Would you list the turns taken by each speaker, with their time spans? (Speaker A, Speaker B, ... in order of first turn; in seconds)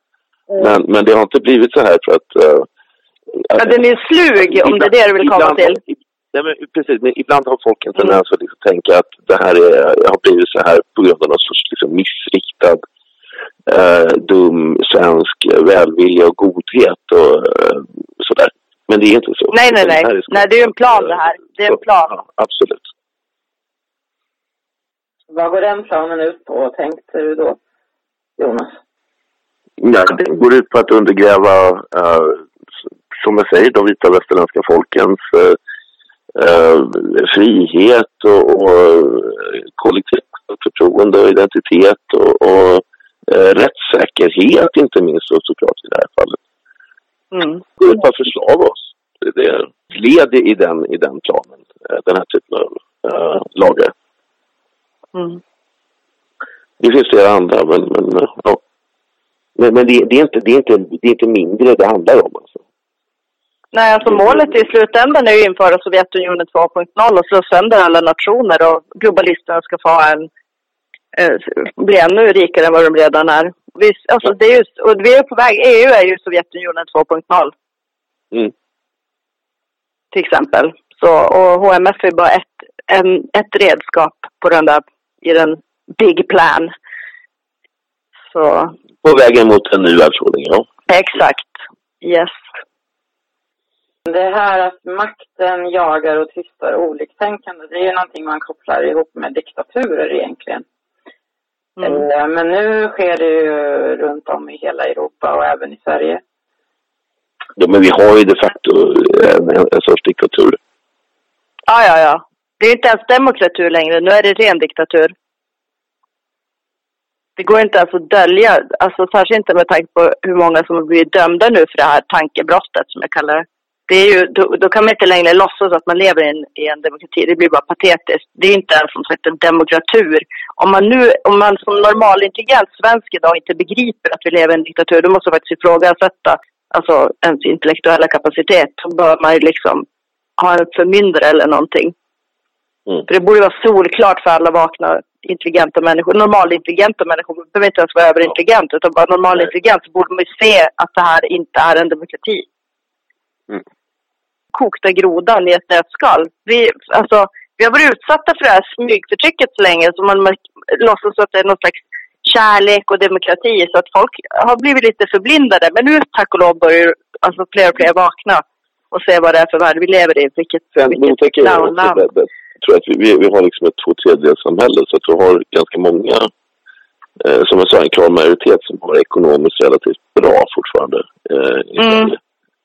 Speaker A: 0.6-2.7, 3.3-3.8, 4.4-12.8, 13.7-22.9, 29.8-32.5, 33.2-35.6, 36.4-46.4, 47.8-53.9, 56.8-58.6, 59.6-62.6, 64.1-64.5, 89.0-90.7, 107.6-110.6, 170.8-176.3, 177.2-182.2
Speaker B: 3.6-5.8, 19.5-22.1, 47.3-47.6, 55.1-55.4, 63.7-70.3, 71.2-77.5, 80.1-86.7, 88.3-88.7, 90.9-92.4, 111.7-115.1, 117.4-139.8, 140.4-141.9, 143.1-152.5, 154.5-172.0, 181.8-182.1
Speaker C: 25.3-27.6, 28.4-28.8, 94.1-100.7, 101.8-106.2